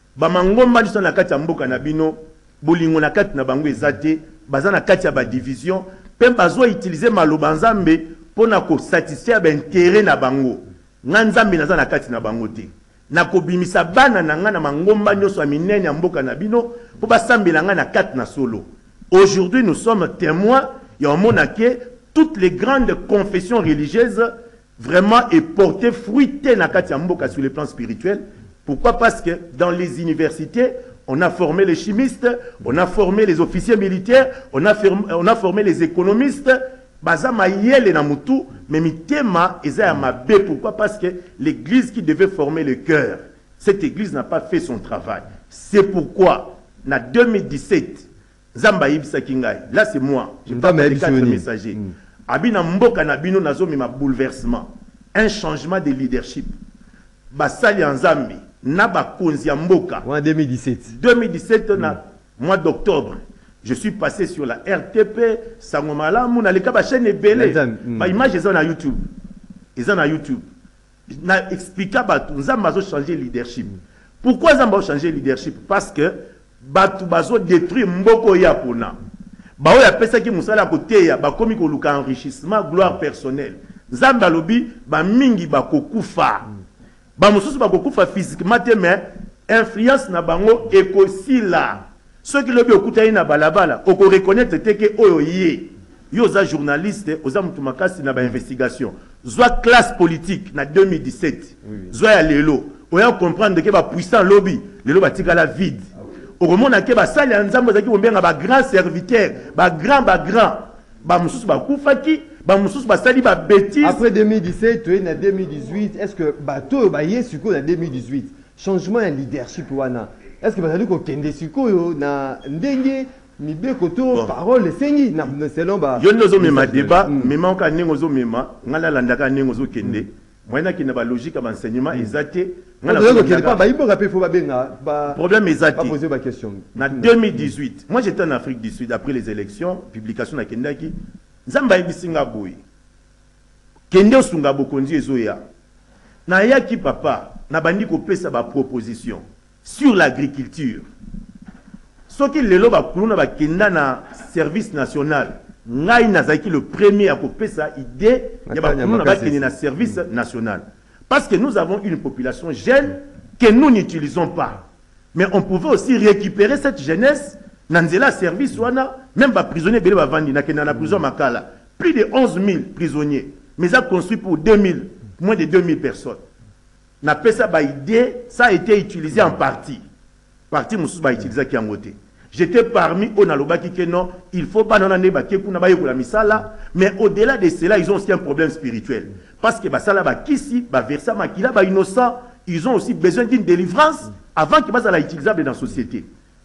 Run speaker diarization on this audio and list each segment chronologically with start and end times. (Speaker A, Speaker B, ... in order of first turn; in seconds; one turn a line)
Speaker A: 0.2-56.6
Speaker B: 50.5-52.0
Speaker A: 57.3-60.1
Speaker B: 60.0-61.0
Speaker A: 60.9-69.1
Speaker B: 67.3-68.2
Speaker A: 69.8-70.5
Speaker A: 71.1-79.0
Speaker A: 79.6-86.5
Speaker A: 87.2-114.0
Speaker B: 101.7-101.9
Speaker B: 113.8-127.3
Speaker A: 126.0-133.6
Speaker B: 132.9-135.2
Speaker A: 135.1-136.0
Speaker B: 135.8-137.1
Speaker A: 136.8-142.6
Speaker A: 143.9-145.4
Speaker A: 146.3-150.9
Speaker A: 152.1-176.2
Speaker B: 158.5-159.5
Speaker A: 177.0-179.8
Speaker A: 180.5-196.1